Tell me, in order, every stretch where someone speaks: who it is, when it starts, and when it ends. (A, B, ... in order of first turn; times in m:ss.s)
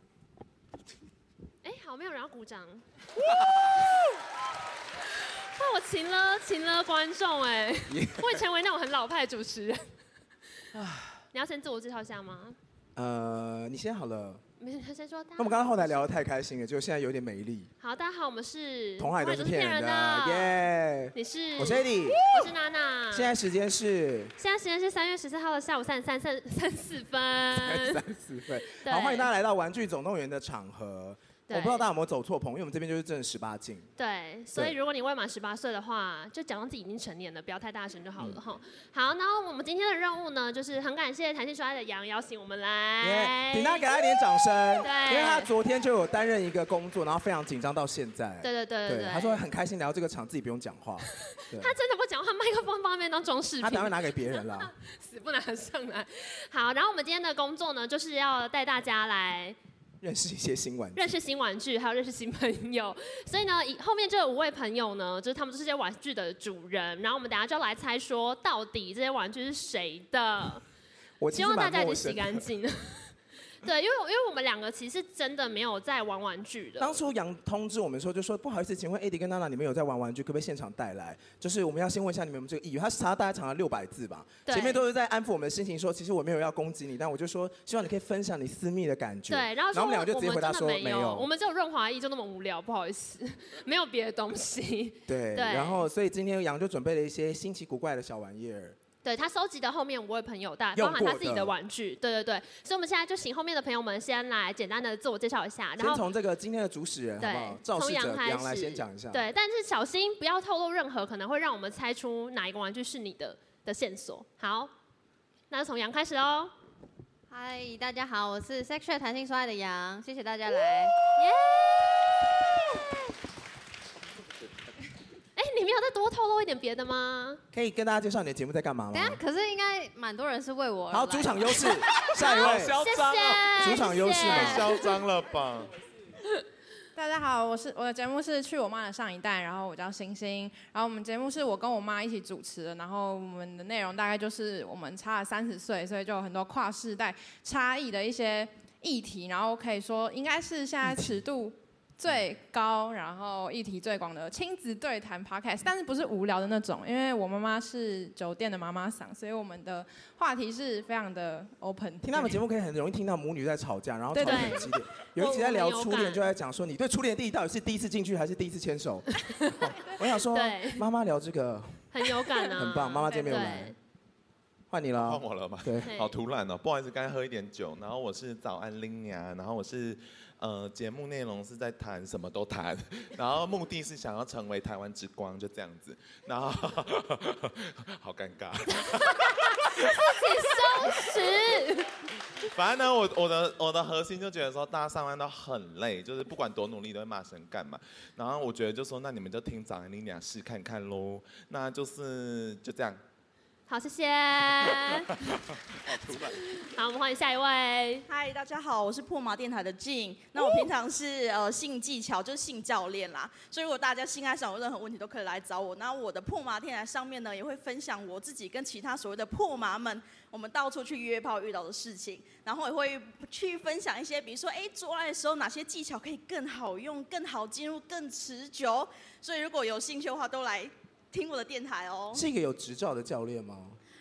0:01.6-0:02.9 A
0:03.3-0:03.7 B
0:03.4-0:04.0 A
0:05.2-0:09.9 A
0:07.9-0:08.4 B
0:10.7-0:11.2 B
0:11.3-0:12.6 A
0:13.0-0:14.4 B
0:14.6-0:16.0 A
0:15.4-0:17.7 B
0:17.8-0:20.6 A
0:19.0-0:22.4 B
0:21.2-0:23.3 A
0:23.1-0:24.3 B
0:24.4-0:28.0 A
0:27.5-0:33.9 B
0:28.7-0:29.3 A
0:31.5-0:31.8 A
0:34.0-0:45.5 A
0:43.0-0:51.7 B
0:48.4-0:49.4 A
0:51.3-0:59.6 A
0:53.6-0:54.7 B
1:00.0-1:01.1 B
1:01.0-1:10.6 A
1:11.2-1:12.5 B
1:11.3-1:17.0 A
1:16.8-1:31.3 B
1:24.5-1:24.8 A
1:29.3-1:35.8 A
1:35.1-1:38.8 B
1:39.0-1:46.0 A
1:40.8-1:41.5 B
1:45.8-1:49.2 B
1:47.2-1:54.7 A
1:55.5-1:56.5 A
1:57.3-2:01.1 C
2:01.0-2:02.1 A
2:05.4-2:07.4 A
2:07.5-2:09.2 B
2:08.9-2:11.8 C
2:10.9-2:12.8 B
2:12.0-2:13.6 D
2:12.2-2:14.8 A
2:13.6-2:14.8 B
2:14.1-2:15.7 D
2:17.0-2:42.3 E
2:30.8-2:31.1 B
2:42.0-2:53.8 B
2:44.2-2:44.6 E
2:44.2-2:46.2 A
2:49.2-2:50.9 A
2:51.9-2:53.8 A
2:54.7-2:55.9 B
2:55.0-3:11.2 D
2:55.8-2:56.2 A
3:09.2-3:11.9 A
3:12.4-3:23.0 D
3:23.7-3:25.3 A
3:25.9-3:26.3 D
3:26.1-3:28.1 A
3:28.1-3:52.2 F
3:52.1-3:53.8 B